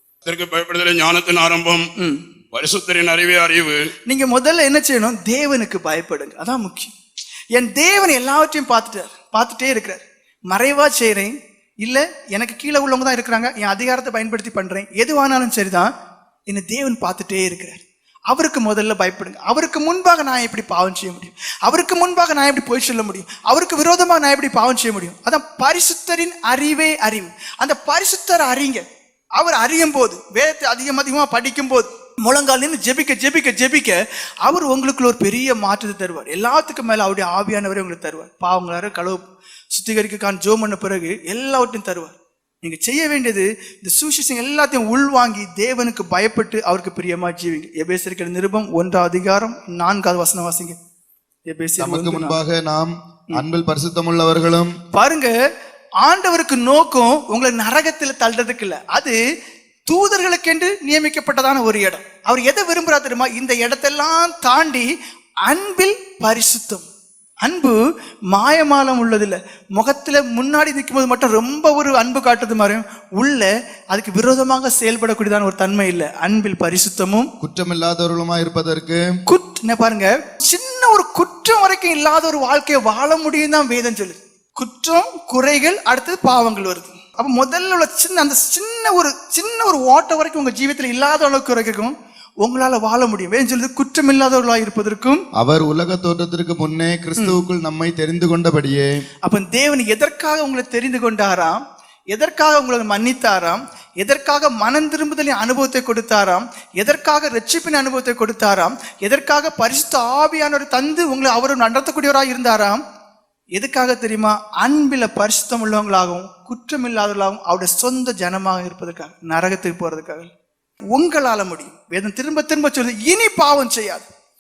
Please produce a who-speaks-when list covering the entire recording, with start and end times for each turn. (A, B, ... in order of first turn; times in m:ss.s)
0:00.2-0:01.9 A
0:02.5-0:03.8 A
0:04.1-0:06.9 B
0:07.6-0:15.9 B
0:16.5-0:28.8 B
0:29.4-0:50.8 B
0:51.5-0:52.4 B
0:51.8-0:54.7 C
0:55.0-0:55.3 B
0:56.0-0:59.2 B
0:59.9-1:04.9 B
1:05.5-1:06.9 B
1:07.4-1:07.8 B
1:08.3-1:17.3 B
1:17.4-1:19.0 C
1:19.3-1:35.2 B
1:35.4-1:38.9 C
1:39.3-1:41.6 B
1:42.1-1:52.8 B
1:53.6-2:00.3 B
2:00.9-2:04.1 B